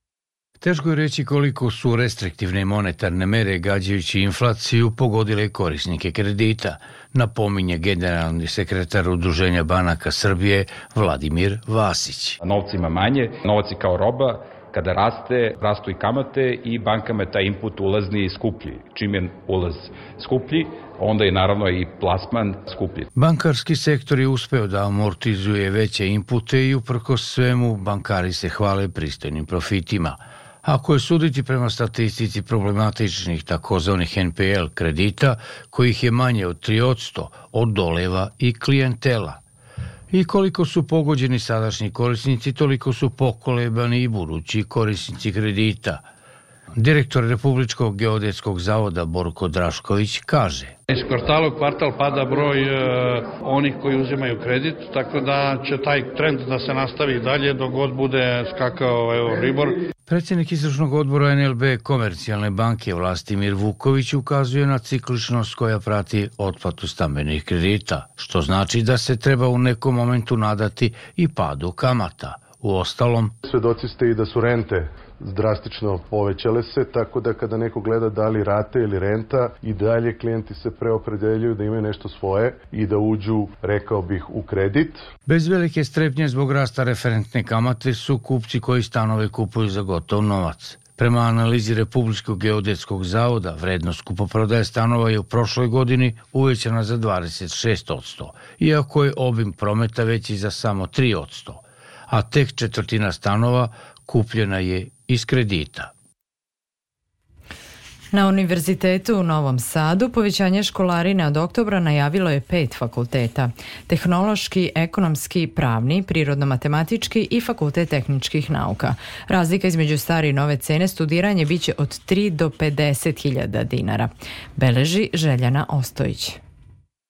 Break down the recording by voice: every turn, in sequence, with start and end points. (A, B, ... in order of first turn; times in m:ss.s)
0:00.6-0:12.4 A
0:12.4-0:23.1 B
0:23.1-0:39.4 A
0:40.1-0:46.0 A
0:46.8-0:50.8 A
0:53.9-0:59.6 C
1:00.1-1:13.4 A
1:13.5-1:25.0 D
1:25.3-1:45.9 A
1:48.1-2:06.4 E